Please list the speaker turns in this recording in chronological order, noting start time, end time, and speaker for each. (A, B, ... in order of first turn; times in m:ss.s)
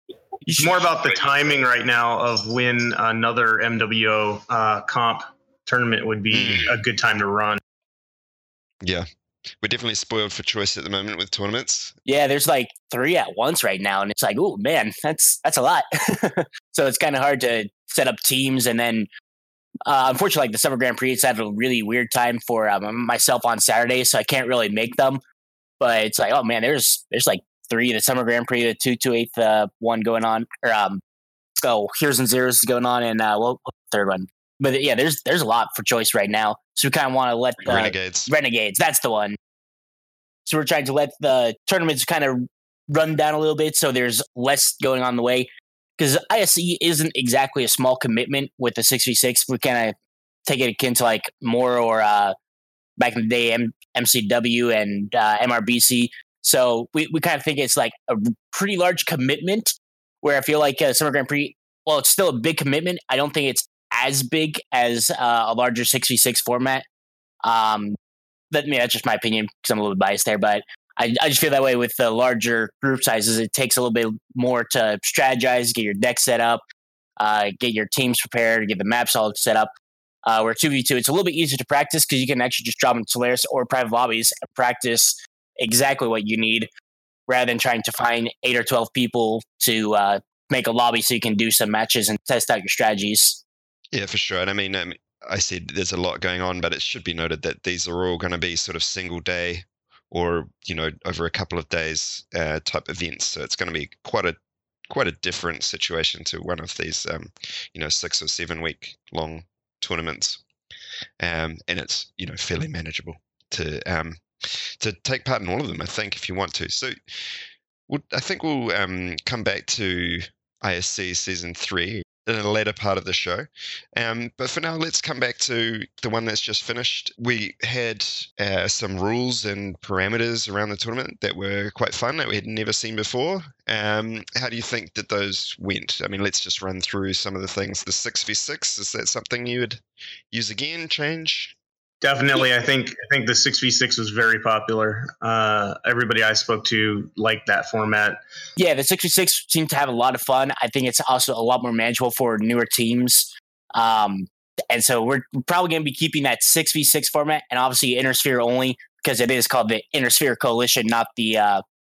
0:00.4-0:00.7 A
0:00.6-0:07.6 B
0:06.3-0:06.7 C
0:08.8-0:09.1 C
0:09.6-0:12.0 C
0:12.0-0:19.1 A
0:19.8-0:25.2 A
0:25.8-0:31.0 A
0:31.6-0:39.4 A
0:37.6-0:38.3 C
0:40.4-0:49.9 A
0:50.4-0:52.3 A
0:53.0-1:06.8 A
1:07.4-1:08.0 A
1:08.5-1:16.6 A
1:17.2-1:19.7 A
1:20.2-1:26.7 A
1:27.3-1:33.4 A
1:33.9-1:44.4 C
1:44.9-1:50.4 C
1:51.2-2:21.6 C
2:22.0-2:28.2 B
2:28.6-2:41.6 A